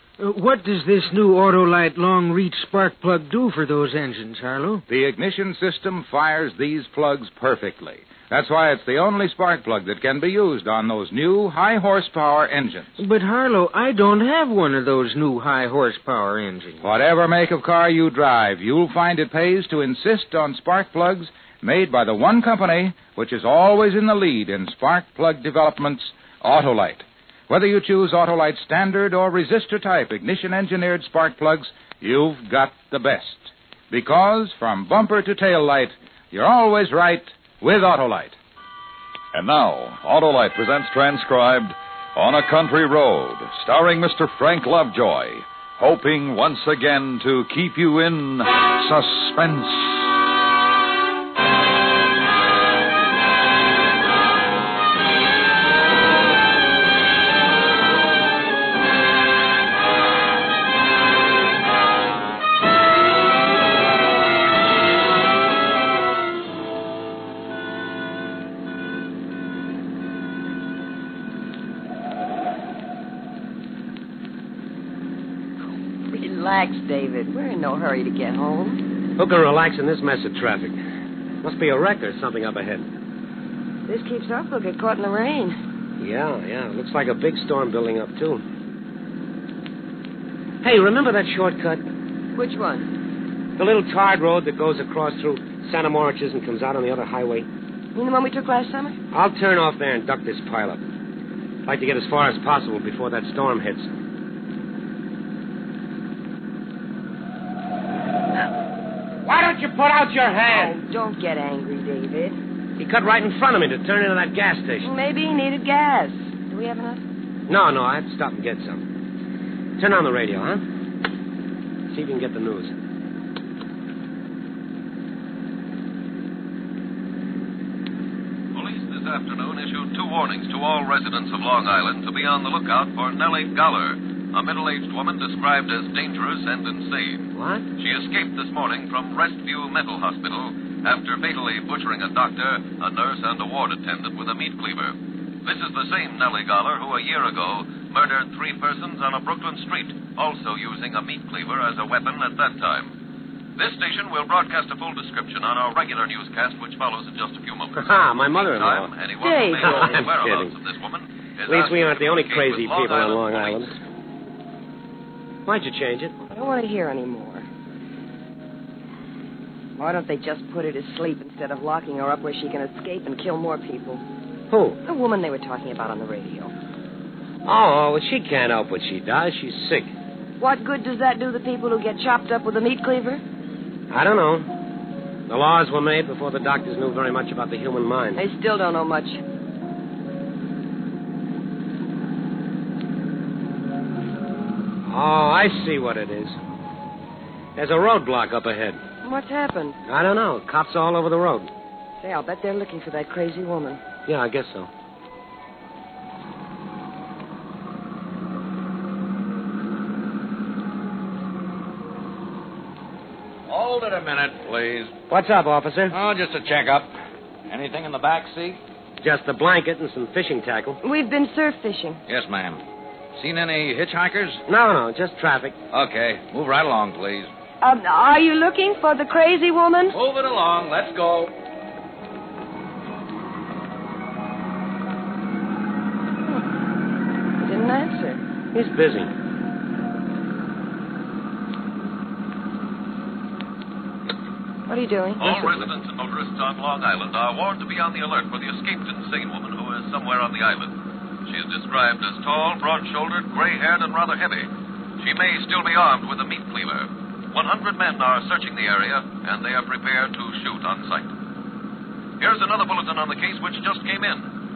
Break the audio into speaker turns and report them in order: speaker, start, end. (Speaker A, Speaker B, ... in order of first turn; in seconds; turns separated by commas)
Speaker A: 0.2-4.8, Speaker B: 4.9-13.0, Speaker A: 13.0-16.9, Speaker B: 16.8-38.4, Speaker C: 39.3-50.2, Speaker D: 76.0-78.8, Speaker E: 79.2-80.8, Speaker E: 81.4-82.9, Speaker D: 83.9-85.6, Speaker E: 86.0-88.4, Speaker E: 90.6-91.9, Speaker D: 92.3-92.9, Speaker E: 93.6-97.5, Speaker D: 98.0-99.0, Speaker E: 99.1-100.8, Speaker E: 101.7-103.9, Speaker E: 109.2-110.8, Speaker D: 110.5-112.4, Speaker E: 112.8-114.9, Speaker D: 114.8-117.0, Speaker E: 117.5-118.9, Speaker E: 119.8-120.6, Speaker E: 121.9-122.7, Speaker F: 128.5-137.2, Speaker E: 137.3-137.7, Speaker F: 137.8-144.9, Speaker F: 145.5-152.9, Speaker F: 153.6-163.7, Speaker E: 157.8-158.9, Speaker D: 159.2-160.0, Speaker E: 159.6-160.5, Speaker E: 161.5-163.7, Speaker E: 165.5-166.2, Speaker D: 166.3-167.5, Speaker D: 169.8-174.0, Speaker E: 174.5-174.8, Speaker D: 174.8-176.5, Speaker E: 177.4-179.9, Speaker D: 180.4-183.2, Speaker E: 183.9-184.5, Speaker E: 185.3-188.2, Speaker D: 188.2-189.2, Speaker E: 194.9-196.4, Speaker E: 197.6-198.8, Speaker D: 199.0-199.8, Speaker E: 199.9-201.5, Speaker D: 202.0-203.8, Speaker E: 204.1-204.7, Speaker G: 213.5-214.9, Speaker E: 215.1-216.0, Speaker G: 215.9-216.9, Speaker G: 217.5-218.6, Speaker E: 219.0-220.8, Speaker D: 220.8-222.0, Speaker G: 222.1-222.6, Speaker G: 223.2-224.4, Speaker E: 224.5-225.6, Speaker G: 225.7-227.3, Speaker D: 227.6-230.0, Speaker G: 229.9-231.3, Speaker D: 237.4-238.2, Speaker E: 238.5-239.1, Speaker D: 244.7-245.3, Speaker F: 245.2-250.7, Speaker E: 245.3-245.6, Speaker F: 251.3-254.5, Speaker F: 255.0-261.1, Speaker F: 262.2-264.3